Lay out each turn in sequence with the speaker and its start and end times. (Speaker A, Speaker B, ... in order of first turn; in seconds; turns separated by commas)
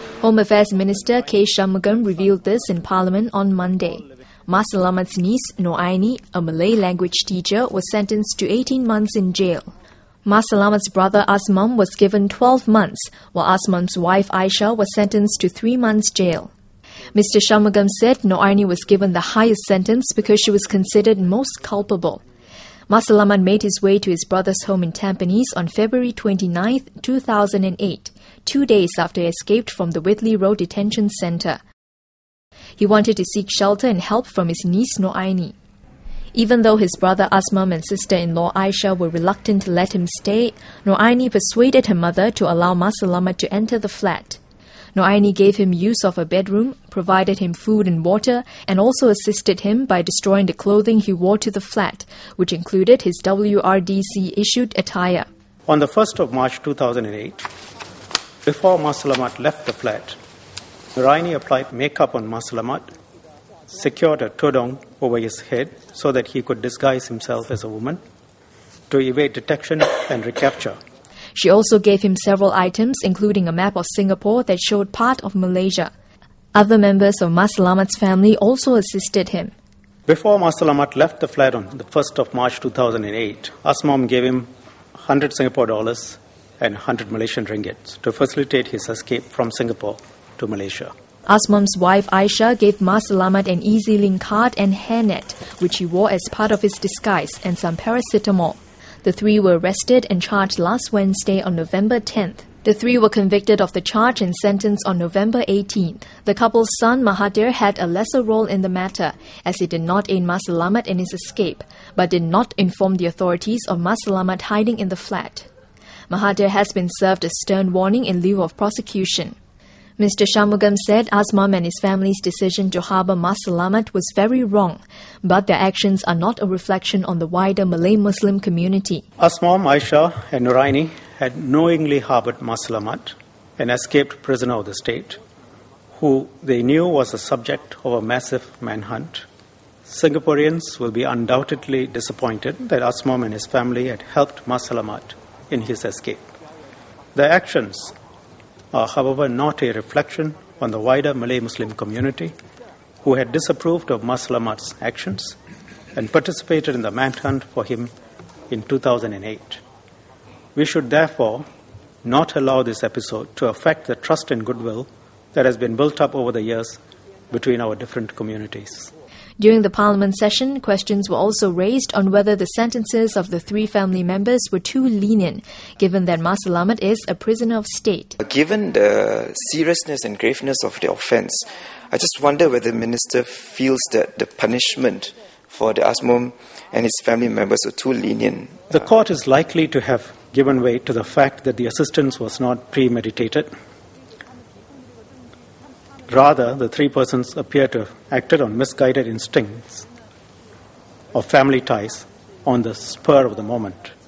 Speaker A: 0.2-9.7, Speaker A: 10.2-16.5, Speaker A: 17.1-22.2, Speaker A: 22.9-31.6, Speaker A: 32.8-35.5, Speaker A: 36.3-44.4, Speaker A: 45.0-55.3, Speaker B: 55.7-57.5, Speaker B: 58.4-60.2, Speaker B: 60.9-62.9, Speaker B: 63.7-68.0, Speaker B: 68.9-70.8, Speaker A: 71.3-75.9, Speaker A: 76.5-79.5, Speaker B: 80.1-90.9, Speaker A: 91.3-115.5, Speaker A: 116.1-119.3, Speaker A: 120.0-129.0, Speaker B: 129.2-135.2, Speaker B: 135.9-139.2, Speaker B: 139.9-146.3, Speaker B: 147.1-147.9, Speaker B: 148.7-152.3, Speaker B: 153.0-155.3, Speaker B: 155.9-157.9, Speaker B: 158.5-159.6, Speaker B: 160.5-161.4, Speaker B: 162.0-166.8, Speaker B: 167.3-168.9, Speaker A: 169.4-178.2, Speaker C: 178.2-188.6, Speaker B: 188.7-193.5, Speaker B: 196.1-199.9, Speaker B: 201.1-203.9